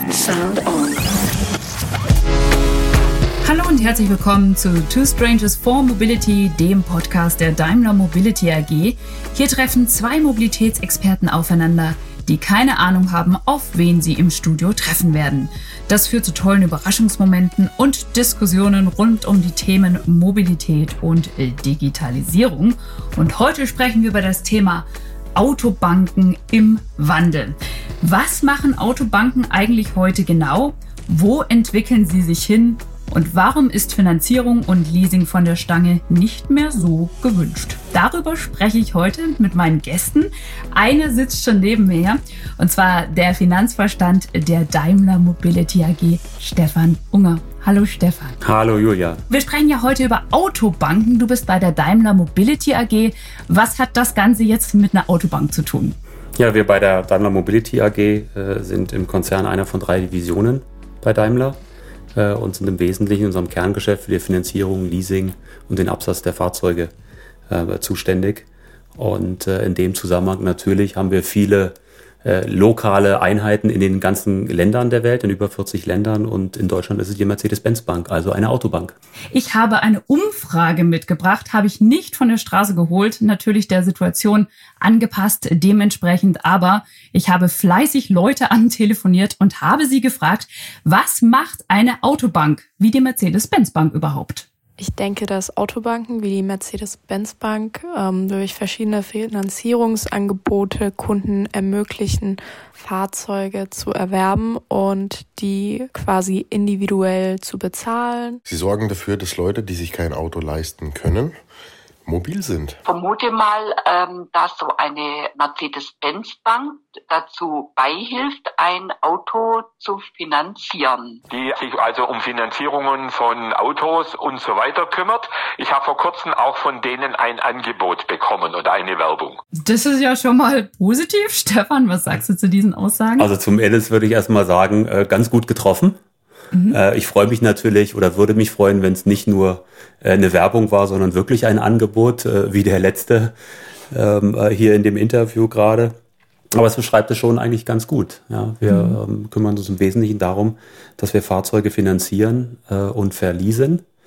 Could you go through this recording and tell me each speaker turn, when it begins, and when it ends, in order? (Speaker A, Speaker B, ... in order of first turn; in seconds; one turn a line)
Speaker A: 3.4-48.4
Speaker B: 48.4-49.2
Speaker A: 49.3-56.0
Speaker B: 56.4-61.6
Speaker B: 62.1-66.9
Speaker B: 67.5-78.9
Speaker A: 79.3-94.5
Speaker C: 94.8-108.4
Speaker D: 108.5-111.4
Speaker D: 112.0-112.8
Speaker E: 112.8-121.2
Speaker F: 121.3-129.4
Speaker A: 129.6-133.3
Speaker B: 133.2-136.0
Speaker A: 136.5-136.8
Speaker B: 136.7-143.3
Speaker B: 143.9-145.9
Speaker B: 146.5-153.8
Speaker A: 148.7-149.0